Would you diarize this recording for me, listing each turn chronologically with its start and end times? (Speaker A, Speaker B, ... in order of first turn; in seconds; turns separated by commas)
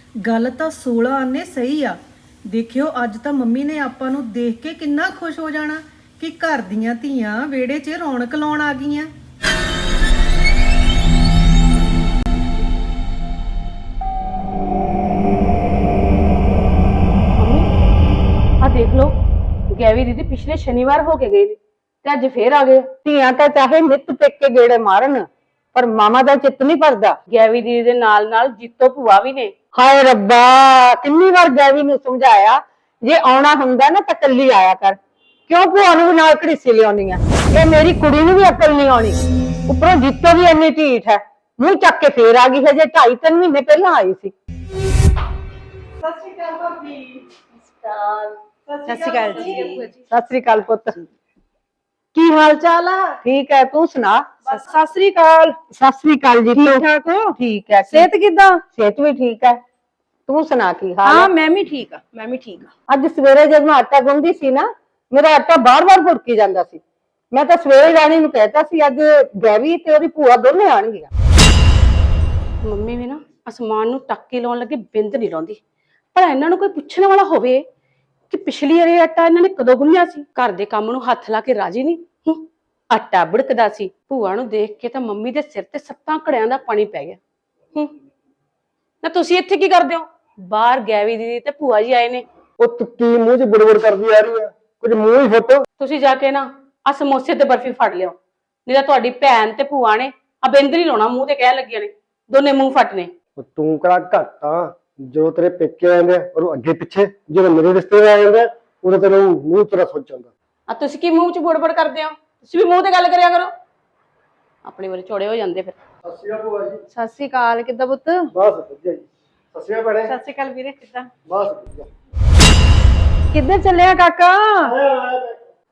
Speaker A: 0.2-9.1, Speaker B: 17.4-17.6, Speaker B: 18.6-19.1, Speaker B: 19.7-22.9, Speaker C: 23.0-27.2, Speaker B: 27.3-29.5, Speaker C: 29.7-44.3, Speaker A: 46.0-47.2, Speaker D: 47.8-48.3, Speaker A: 48.6-49.8, Speaker D: 48.9-50.0, Speaker C: 50.1-51.0, Speaker A: 52.1-53.2, Speaker C: 53.2-54.3, Speaker D: 54.5-55.6, Speaker C: 55.7-58.1, Speaker D: 56.5-57.3, Speaker D: 57.9-58.6, Speaker C: 58.7-59.6, Speaker C: 60.3-61.3, Speaker D: 61.0-62.7, Speaker C: 62.9-66.8, Speaker C: 67.3-71.1, Speaker B: 72.6-75.6, Speaker B: 76.1-77.6, Speaker B: 78.3-87.2, Speaker B: 89.0-92.2, Speaker E: 92.6-95.6, Speaker B: 95.8-103.1, Speaker E: 103.4-110.3, Speaker B: 110.7-113.5, Speaker B: 114.6-115.7, Speaker E: 116.0-116.8, Speaker D: 116.9-118.3, Speaker E: 118.3-120.1, Speaker A: 120.1-121.1, Speaker E: 121.2-121.9, Speaker D: 123.3-124.7, Speaker E: 124.6-125.3